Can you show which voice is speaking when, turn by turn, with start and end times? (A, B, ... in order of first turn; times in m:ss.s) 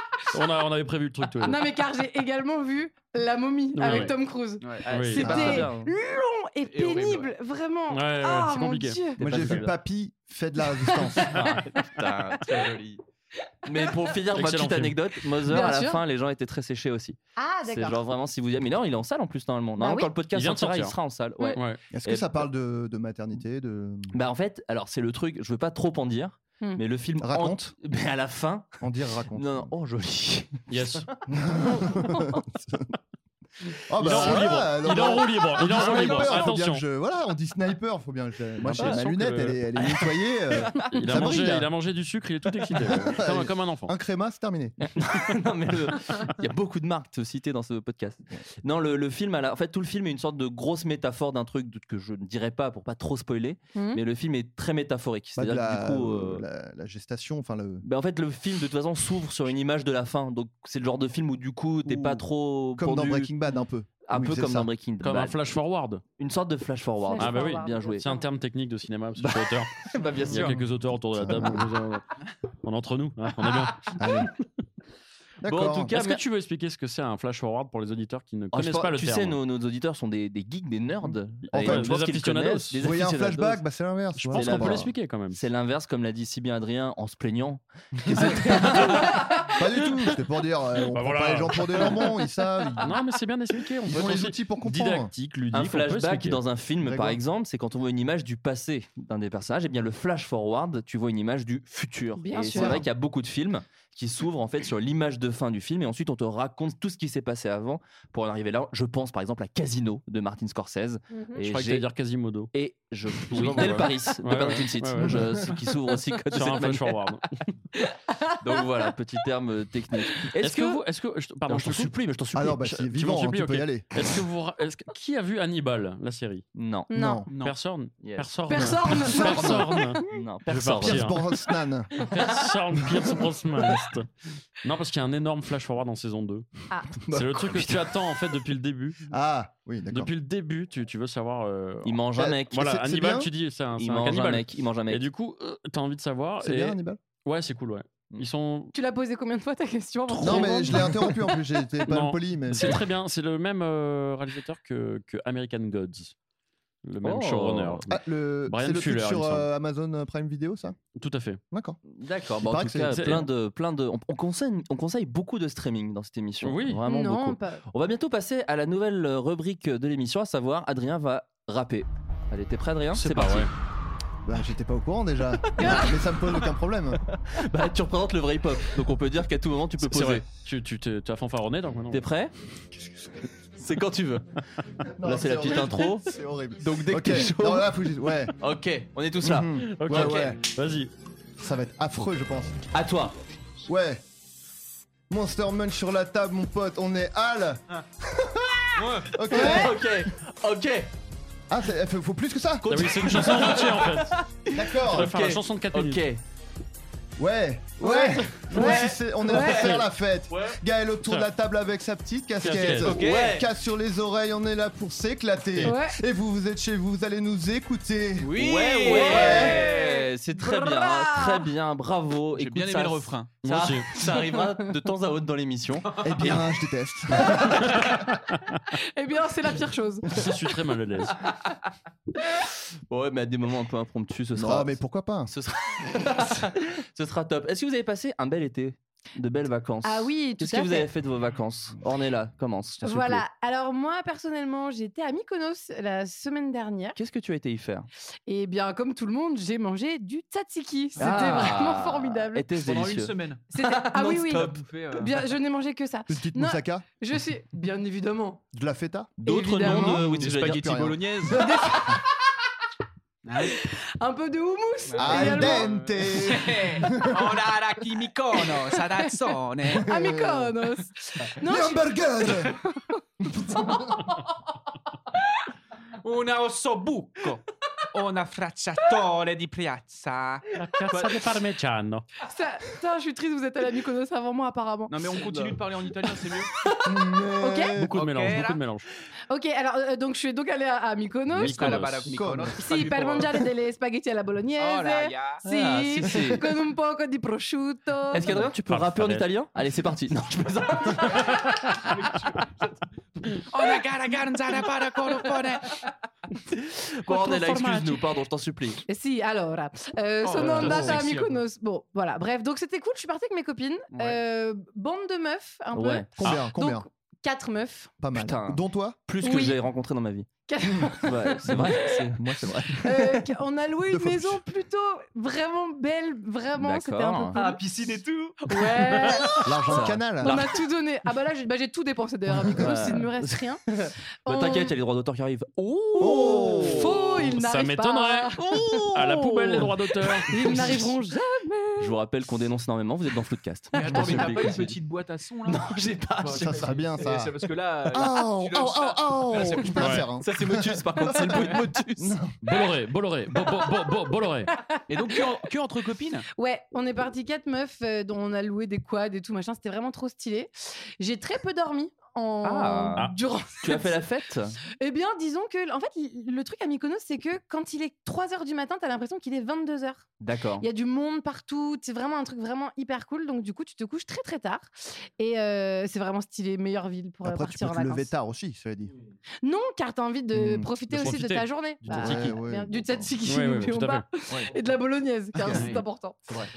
0:00.3-0:01.6 A
0:01.4-0:09.2 B
0:03.8-0:04.1 A
0:04.6-0:04.9 C
0:04.8-0:05.9 D
0:04.9-0:05.7 A
0:06.6-0:07.3 C
0:07.9-0:09.0 A
0:09.2-0:09.7 D
0:09.2-0:11.4 E
0:10.8-0:11.3 B
0:11.3-0:12.8 D
0:12.4-0:13.0 C
0:13.7-0:22.5 D
0:14.3-0:15.0 A
0:15.5-0:16.0 B
0:17.4-0:18.0 B
0:19.8-0:20.1 B
0:20.3-0:21.0 A
0:21.9-0:24.2 E
0:24.1-0:28.8 D
0:27.2-0:27.7 E
0:28.8-0:29.7 E
0:29.3-0:31.1 D
0:30.7-0:31.1 A
0:31.3-0:33.0 E
0:33.9-0:41.7 E
0:34.0-0:36.8 A
0:34.0-0:34.4 D
0:35.7-0:36.2 D
0:38.6-0:39.6 A
0:38.8-0:39.0 D
0:39.8-0:40.1 D
0:40.8-0:41.3 D
0:40.9-0:43.9 A
0:42.8-0:44.8 E
0:45.0-0:56.4 D
0:53.8-0:54.0 B
0:55.4-0:57.8 E
0:57.8-1:03.3 D
1:01.9-1:02.2 C
1:02.8-1:04.7 E
1:04.1-1:05.4 D
1:05.0-1:06.0 A
1:06.2-1:08.1 D
1:07.0-1:08.2 B
1:07.2-1:12.0 A
1:09.2-1:10.6 D
1:10.3-1:11.7 E
1:12.6-1:14.0 A
1:14.0-1:14.3 E
1:15.4-1:15.9 E
1:15.5-1:16.2 D
1:15.9-1:19.4 A
1:18.5-1:23.6 D
1:21.5-1:22.8 A
1:21.5-1:21.9 E
1:22.8-1:24.9 E
1:24.2-1:25.4 A
1:24.3-1:29.2 D
1:28.0-1:33.0 E
1:30.9-1:32.1 A
1:32.8-1:36.4 A
1:33.9-1:35.1 E
1:35.5-1:51.9 D
1:36.8-1:37.2 E
1:42.2-1:42.8 B
1:42.6-1:42.8 E
1:51.1-1:51.4 B
1:51.4-1:52.5 A
1:52.5-1:57.0 D
1:53.3-1:55.3 A
1:55.0-1:55.5 E
1:56.3-1:57.3 A
1:57.9-1:58.6 B
1:58.4-2:00.8 D
2:00.4-2:01.9 A
2:01.5-2:02.7 D
2:02.3-2:04.1 E
2:02.6-2:06.4 A
2:06.6-2:06.9 D
2:06.9-2:07.2 B
2:06.9-2:07.3 E
2:07.3-2:07.6 C
2:07.3-2:11.2 A
2:08.0-2:08.7 D
2:08.5-2:09.6 B
2:08.9-2:09.9 E
2:10.1-2:11.1 D
2:10.8-2:11.9 E
2:12.0-2:14.1 A
2:14.6-2:16.5 A
2:17.0-2:19.0 A
2:17.1-2:17.8 E
2:19.1-2:20.1 E
2:19.9-2:28.7 A
2:21.8-2:22.7 D
2:22.2-2:23.3 E
2:23.8-2:25.0 D
2:26.4-2:27.0 E
2:28.7-2:31.3 B
2:30.1-2:30.9 D
2:30.2-2:32.8 E
2:31.8-2:36.1 A
2:36.8-2:37.8 A
2:37.0-2:38.0 D
2:37.9-2:40.8 E
2:38.5-2:39.5 A
2:41.0-2:41.4 A
2:41.5-2:41.8 E
2:41.9-2:53.5 D
2:42.4-2:43.1 E
2:42.9-2:43.3 A
2:46.4-2:46.8 A
2:46.9-2:47.6 B
2:52.9-2:53.5 A
2:54.2-2:57.0 E
2:55.6-2:56.0 B
2:55.6-2:55.9 D
2:57.3-3:00.2 D
2:59.8-3:02.1 A
3:01.9-3:02.3 D
3:03.6-3:04.2 D
3:05.0-3:08.3 E
3:05.0-3:07.7 D
3:08.4-3:10.3 D
3:09.2-3:10.4 E
3:09.6-3:10.9 A
3:11.4-3:12.7 E
3:12.7-3:13.2 D
3:13.7-3:14.0 E
3:15.1-3:19.8 E
3:18.8-3:19.1 C
3:19.3-3:20.9 D
3:21.5-3:23.5 E
3:22.6-3:26.2 D
3:22.7-3:24.2 A
3:24.5-3:25.1 E
3:24.9-3:26.0 A
3:27.2-3:38.4 E
3:27.8-3:29.6 B
3:28.5-3:29.0 C
3:29.6-3:29.8 A
3:31.0-3:31.3 A
3:32.4-3:33.0 A
3:32.6-3:33.4 C
3:32.9-3:33.5 D
3:35.6-3:36.0 B
3:38.2-3:39.8 C
3:38.4-3:46.5 D
3:38.9-3:41.5 B
3:39.0-3:39.6 E
3:42.4-3:43.4 C
3:43.4-3:43.9 A
3:46.0-3:47.8 E
3:48.9-3:50.3 B
3:50.1-3:51.2 A
3:52.9-4:03.2 D
3:54.4-3:55.3 E
3:59.8-4:00.9 B
4:02.8-4:07.0 B
4:07.0-4:07.9 D
4:08.3-4:12.5 B
4:11.0-4:14.6 D
4:11.0-4:11.5 C
4:12.6-4:15.2 C
4:13.5-4:18.4 B
4:16.1-4:16.8 E
4:18.5-4:21.8 E
4:19.2-4:20.8 D
4:19.2-4:20.1 B
4:19.7-4:21.8 C
4:21.3-4:22.0 B
4:23.2-4:23.6 C
4:23.5-4:25.7 B
4:24.9-4:29.9 C
4:25.0-4:27.3 E
4:28.8-4:33.0 B
4:29.7-4:30.5 E
4:31.4-4:32.6 E
4:33.2-4:34.0 E
4:36.0-4:37.4 C
4:38.0-4:40.4 C
4:40.6-4:42.0 A
4:42.2-4:45.0 B
4:44.9-4:46.5 C
4:46.6-4:47.8 B
4:46.8-4:48.0 E
4:47.8-4:48.9 A
4:47.9-4:48.6 C
4:49.3-4:51.8 B
4:51.4-4:52.2 A
4:51.4-4:53.5 C
4:52.1-4:52.6 E
4:52.6-4:58.5 B
4:54.6-4:55.4 C
4:55.4-4:56.5 D
4:58.1-5:01.4 D
4:58.7-4:59.3 A
5:01.3-5:02.8 C
5:01.3-5:01.6 A
5:03.5-5:05.8 C
5:06.5-5:08.8 D
5:07.1-5:08.0 B
5:08.9-5:17.9 B
5:10.2-5:11.4 C
5:13.9-5:14.2 C
5:15.7-5:16.4 D
5:16.2-5:16.9 E
5:18.0-5:19.0 E
5:18.1-5:20.3 D
5:19.2-5:19.6 B
5:20.5-5:22.0 B
5:21.0-5:23.0 D
5:22.2-5:23.2 E
5:22.8-5:27.6 B
5:23.9-5:24.4 E
5:26.6-5:27.5 D
5:27.4-5:29.4 C
5:28.5-5:33.6 B
5:29.4-5:30.4 E
5:29.6-5:30.6 D
5:32.5-5:37.3 D
5:32.5-5:33.0 E
5:34.2-5:34.7 B
5:36.0-5:38.7 B
5:36.0-5:37.1 E
5:37.3-5:38.3 A
5:38.4-5:40.9 D
5:38.9-5:40.5 A
5:40.3-5:42.0 B
5:41.8-5:44.8 D
5:43.7-5:52.1 C
5:45.5-5:46.8 D
5:46.3-5:47.4 E
5:47.9-5:52.3 E
5:49.8-5:50.1 A
5:50.2-5:51.9 D
5:52.4-5:54.5 A
5:54.9-5:56.3 C
5:56.4-6:04.0 B
6:02.4-6:03.1 D
6:03.6-6:04.6 D
6:04.8-6:10.1 B
6:10.2-6:10.7 D
6:10.6-6:18.1 B
6:17.2-6:18.9 E
6:19.4-6:26.2 B
6:20.3-6:20.7 E
6:20.9-6:22.4 A
6:21.9-6:23.1 E
6:23.2-6:24.0 A
6:25.3-6:25.7 E
6:25.5-6:25.8 C